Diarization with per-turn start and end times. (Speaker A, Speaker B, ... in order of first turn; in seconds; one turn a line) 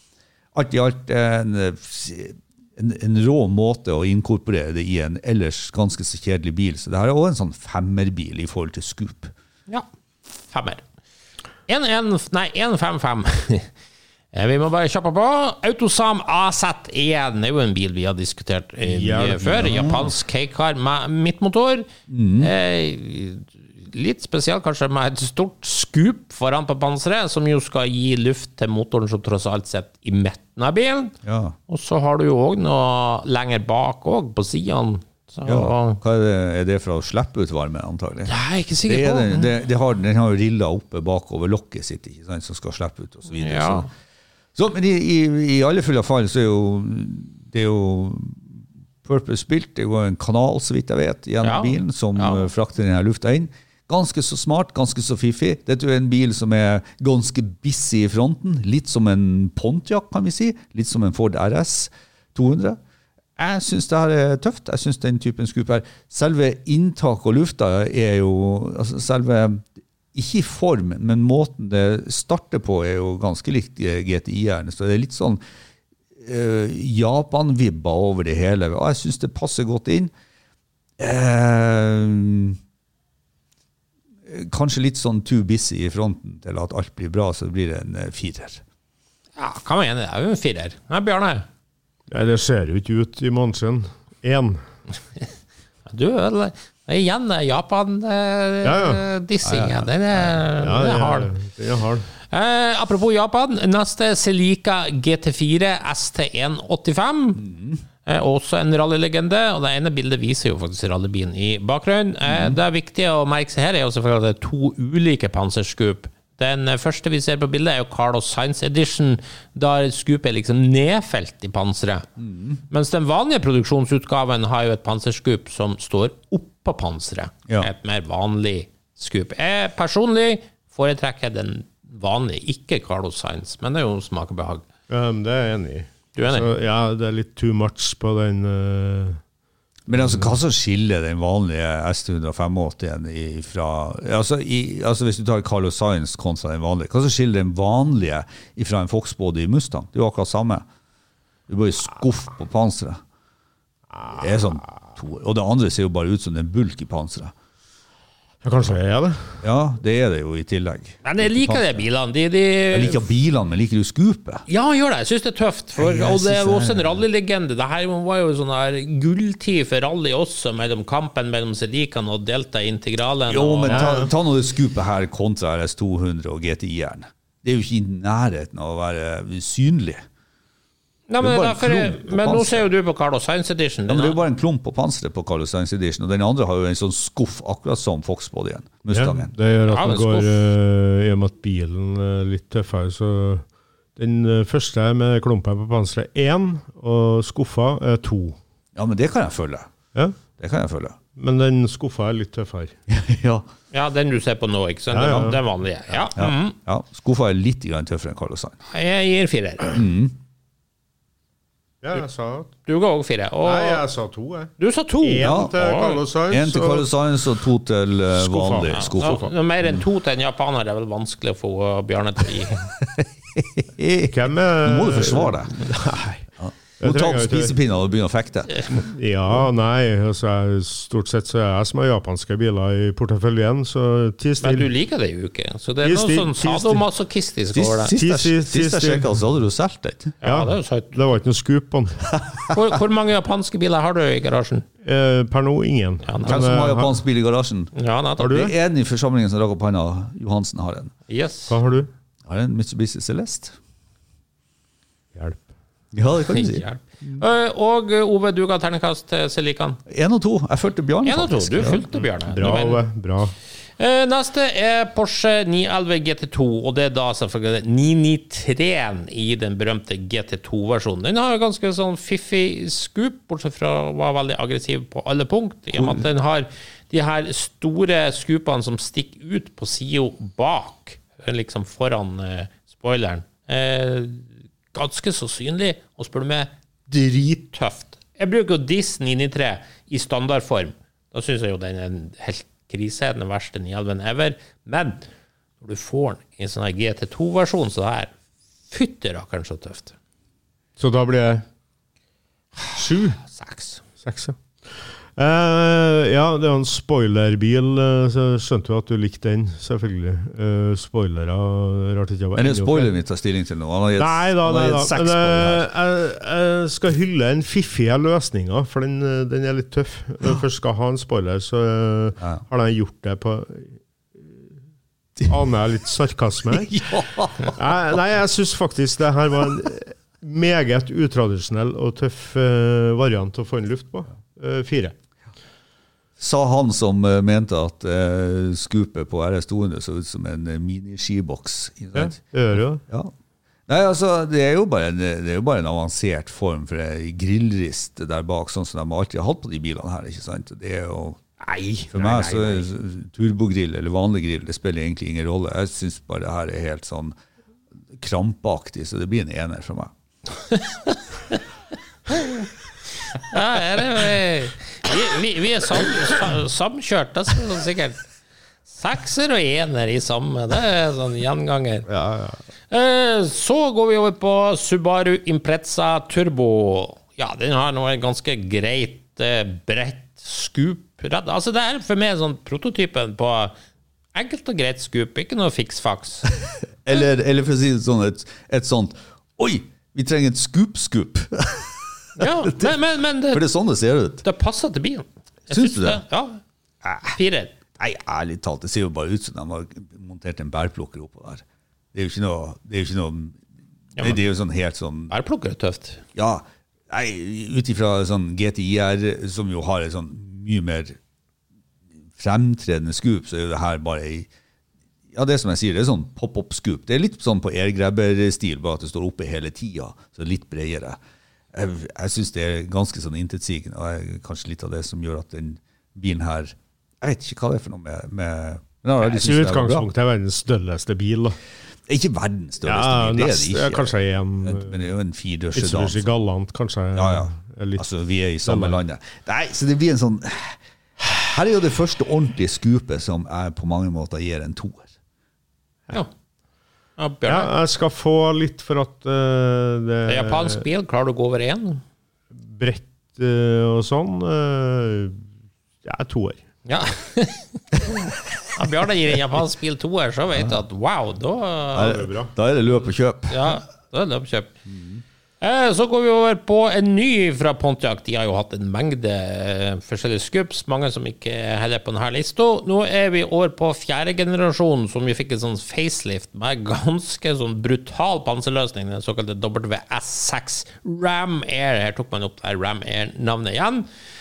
Speaker A: 0.5-9.3
Speaker B: 10.5-10.8
Speaker B: 11.7-13.7
Speaker B: 14.3-31.1
Speaker C: 18.8-20.0
Speaker A: 19.6-20.1
Speaker A: 22.1-22.5
Speaker A: 31.2-31.5
Speaker B: 31.7-36.0
Speaker A: 35.4-38.3
Speaker B: 38.3-39.5
Speaker A: 38.9-43.9
Speaker B: 43.3-43.9
Speaker A: 44.5-62.8
Speaker B: 51.4-52.5
Speaker A: 63.4-75.4
Speaker A: 76.2-80.1
Speaker A: 81.0-82.6
Speaker A: 84.3-88.6
Speaker B: 89.4-91.5
Speaker C: 92.1-94.6
Speaker B: 95.9-101.3
Speaker C: 98.6-99.0
Speaker A: 99.4-100.3
Speaker C: 100.6-102.1
Speaker B: 102.3-107.4
Speaker A: 107.4-107.8
Speaker B: 108.0-122.0
Speaker A: 112.2-112.6
Speaker A: 122.2-122.6
Speaker B: 122.7-134.6
Speaker C: 134.9-139.2
Speaker B: 136.1-136.5
Speaker A: 139.9-150.7
Speaker C: 139.9-140.3
Speaker A: 151.5-153.0
Speaker A: 154.1-157.3
Speaker C: 158.4-159.4
Speaker A: 159.4-161.8
Speaker B: 161.0-163.0
Speaker A: 162.7-164.4
Speaker B: 164.5-173.9
Speaker A: 165.8-166.9
Speaker A: 173.3-180.0
Speaker C: 173.7-174.1
Speaker B: 181.1-184.2
Speaker A: 181.2-182.7
Speaker A: 183.9-189.3
Speaker C: 188.9-193.4
Speaker B: 189.7-190.3
Speaker C: 193.9-198.4
Speaker A: 198.8-199.7
Speaker A: 200.4-201.0
Speaker C: 201.2-202.7
Speaker A: 202.9-203.4
Speaker B: 203.7-206.6
Speaker C: 204.9-205.4
Speaker A: 205.1-205.3
Speaker A: 206.0-208.6
Speaker B: 208.7-209.8
Speaker A: 209.7-210.1
Speaker C: 211.8-212.5
Speaker B: 212.7-213.8
Speaker C: 213.4-216.9
Speaker B: 214.6-216.0
Speaker A: 215.2-215.6
Speaker A: 216.3-219.8
Speaker C: 218.1-219.3
Speaker B: 218.7-222.7
Speaker A: 222.8-225.7
Speaker C: 224.1-226.2
Speaker A: 226.4-228.8
Speaker C: 226.8-227.6
Speaker C: 228.7-234.7
Speaker B: 234.4-237.9
Speaker C: 235.8-236.8
Speaker A: 237.5-240.1
Speaker C: 237.9-239.1
Speaker B: 240.2-241.0
Speaker C: 240.2-242.1
Speaker B: 242.5-244.7
Speaker C: 244.8-247.0
Speaker B: 246.1-246.4
Speaker A: 246.2-250.9
Speaker B: 247.7-248.4
Speaker C: 248.2-248.5
Speaker B: 251.1-251.6
Speaker C: 251.5-251.9
Speaker A: 252.2-253.6
Speaker C: 255.1-255.4
Speaker A: 255.9-257.2
Speaker B: 256.3-259.8
Speaker A: 259.9-261.8
Speaker B: 261.0-262.8
Speaker C: 261.6-263.4
Speaker B: 263.8-295.0
Speaker A: 275.7-276.0
Speaker B: 295.6-298.1
Speaker B: 298.7-299.9
Speaker C: 300.8-301.4
Speaker C: 302.7-303.2
Speaker B: 303.2-303.8
Speaker C: 304.0-312.9
Speaker A: 312.3-315.7
Speaker C: 314.0-324.4
Speaker C: 325.2-334.9
Speaker A: 326.5-327.6
Speaker A: 336.2-342.2
Speaker C: 341.9-342.8
Speaker A: 342.9-343.1
Speaker A: 343.7-351.2
Speaker B: 351.5-352.6
Speaker A: 351.9-357.1
Speaker A: 357.9-359.9
Speaker B: 360.5-361.4
Speaker B: 362.1-362.4
Speaker B: 363.2-368.0
Speaker B: 368.7-371.9
Speaker C: 371.9-372.4
Speaker B: 372.7-383.5
Speaker B: 384.1-386.3
Speaker A: 386.4-392.8
Speaker B: 392.2-393.4
Speaker A: 393.3-394.2
Speaker B: 394.2-396.4
Speaker A: 395.5-396.0
Speaker A: 396.8-397.1
Speaker B: 397.1-397.5
Speaker A: 397.8-403.4
Speaker A: 403.9-405.1
Speaker B: 405.1-406.0
Speaker A: 406.1-411.0
Speaker A: 412.1-414.3
Speaker A: 415.1-421.0
Speaker A: 421.5-429.9
Speaker C: 429.0-431.4
Speaker A: 431.9-433.9
Speaker C: 432.6-434.8
Speaker A: 434.4-436.1
Speaker C: 435.5-437.8
Speaker A: 436.9-444.9
Speaker C: 438.4-438.8
Speaker B: 447.0-447.5
Speaker C: 447.2-450.6
Speaker B: 450.1-451.8
Speaker C: 452.4-455.2
Speaker C: 455.8-456.4
Speaker B: 456.6-462.0
Speaker A: 460.3-460.6
Speaker A: 461.7-463.4
Speaker C: 461.8-462.3
Speaker B: 463.3-464.5
Speaker A: 464.7-465.0
Speaker B: 465.4-483.9